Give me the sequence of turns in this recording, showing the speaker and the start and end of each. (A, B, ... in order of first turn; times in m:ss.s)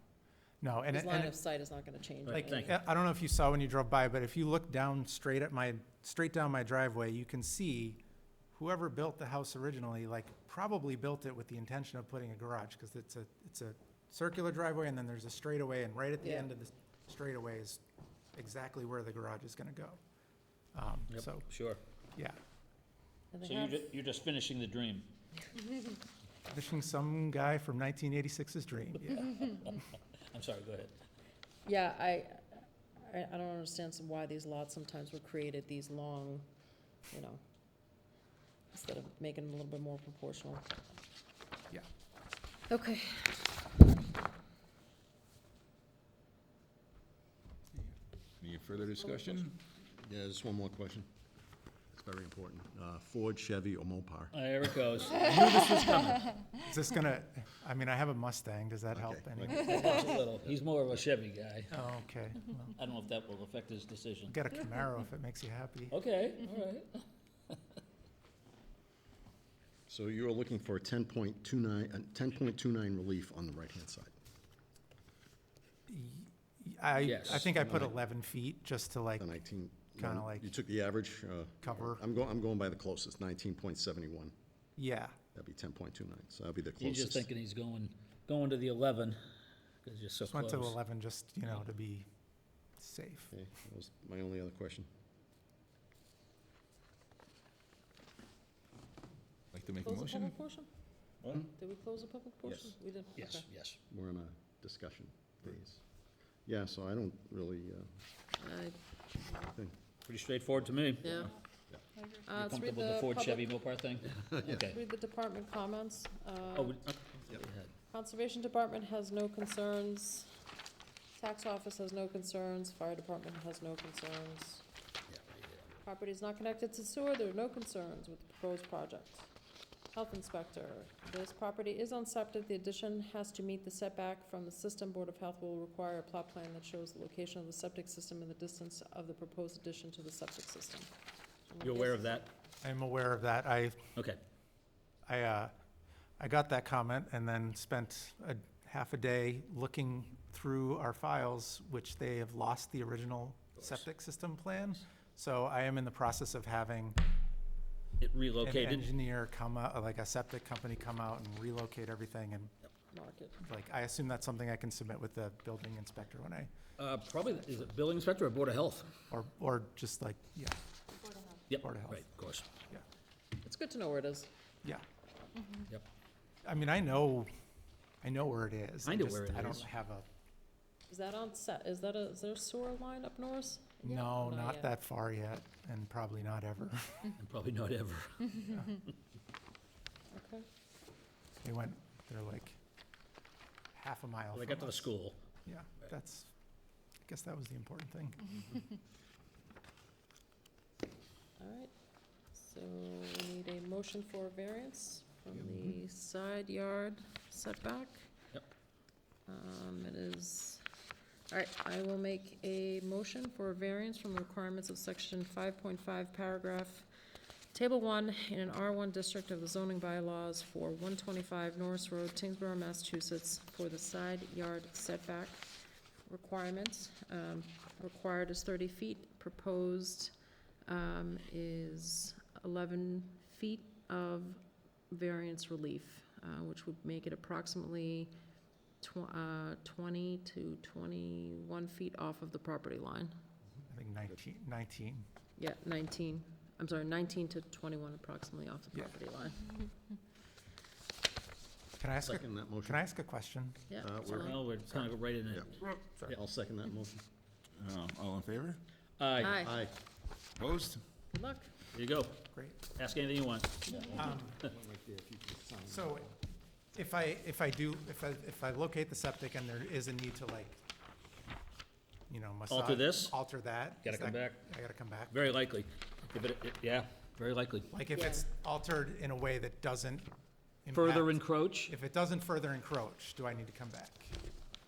0:00.6-0:01.4 A
0:00.9-0:02.8 B
0:02.3-0:02.7 C
0:02.3-0:08.0 A
0:08.5-0:17.8 A
0:16.2-0:16.5 B
0:18.3-0:20.0 A
0:20.8-0:21.5 A
0:21.1-0:21.8 C
0:23.3-0:23.9 B
0:23.4-0:25.1 C
0:26.5-0:29.7 A
0:29.4-0:30.9 C
0:31.7-0:36.5 B
0:37.1-0:37.4 B
0:38.7-0:40.6 B
0:42.7-0:43.8 B
0:48.4-0:49.6 D
0:49.8-0:51.1 E
0:51.9-0:54.4 E
0:54.3-0:56.4 C
0:55.2-1:00.0 A
0:58.9-1:00.5 E
0:59.6-1:01.8 C
1:01.7-1:02.8 A
1:02.8-1:04.4 C
1:04.3-1:06.0 A
1:05.9-1:07.6 C
1:09.9-1:14.1 E
1:15.9-1:19.3 A
1:17.0-1:17.5 C
1:17.2-1:17.9 E
1:19.2-1:24.3 E
1:20.0-1:20.5 A
1:21.7-1:22.0 A
1:24.8-1:25.2 A
1:25.3-1:27.3 E
1:26.8-1:29.2 C
1:29.8-1:30.8 C
1:30.3-1:32.1 A
1:32.8-1:33.3 A
1:33.3-1:34.9 E
1:39.5-1:40.4 D
1:39.8-1:40.7 B
1:41.2-1:41.5 D
1:41.6-1:43.4 B
1:43.2-1:43.8 C
1:43.9-1:45.8 E
1:46.4-1:47.9 E
1:48.4-1:49.4 B
1:49.4-1:49.8 E
1:50.0-1:51.3 C
1:51.0-1:51.3 B
1:52.1-1:53.5 B
1:52.3-1:54.8 C
1:54.2-1:54.8 E
1:54.4-1:56.8 B
1:56.5-1:57.7 C
1:57.9-2:00.3 B
2:01.2-2:04.6 B
2:05.8-2:09.3 B
2:09.9-2:20.9 B
2:21.5-2:22.2 B
2:21.6-2:22.3 C
2:22.6-2:23.8 A
2:25.1-2:25.5 A
2:26.2-2:37.0 A
2:38.0-2:38.9 C
2:38.4-2:42.5 A
2:42.9-2:43.4 B
2:43.4-2:46.5 A
2:46.8-2:48.9 C
2:49.1-2:50.6 A
2:51.5-2:52.4 C
2:51.5-2:52.0 A
2:53.4-2:54.3 B
2:56.4-2:57.3 A
2:58.0-3:00.1 A
2:58.8-2:59.7 C
3:00.9-3:04.7 B
3:03.8-3:07.1 A
3:07.2-3:08.8 C
3:10.1-3:10.5 B
3:11.4-3:12.6 A
3:13.7-3:14.8 A
3:14.3-3:15.2 C
3:15.5-3:16.3 A
3:17.1-3:18.6 A
3:21.4-3:21.7 B
3:22.3-3:28.1 B
3:29.3-3:30.6 B
3:31.3-3:36.9 B
3:37.5-3:45.5 B
3:46.1-3:50.1 B
3:50.7-3:58.1 B
3:58.8-4:03.1 B
4:03.7-4:05.0 A
4:05.4-4:09.7 B
4:11.8-4:13.7 A
4:12.0-4:12.8 E
4:13.7-4:14.4 B
4:13.8-4:17.0 E
4:14.1-4:16.2 C
4:15.7-4:16.2 A
4:17.6-4:18.6 D
4:19.0-4:19.4 C
4:19.2-4:19.6 B
4:19.4-4:19.7 E
4:20.4-4:20.8 D
4:21.1-4:21.5 B
4:21.7-4:22.2 C
4:22.3-4:22.6 A
4:22.8-4:24.1 C
4:23.7-4:25.9 E
4:23.8-4:24.4 A
4:25.7-4:26.2 A
4:26.8-4:30.6 A
4:32.1-4:35.3 A
4:32.5-4:33.2 C
4:33.8-4:34.4 C
4:35.1-4:37.7 C
4:37.7-4:40.1 A
4:38.0-4:38.2 B
4:40.6-4:44.2 A
4:40.7-4:41.7 C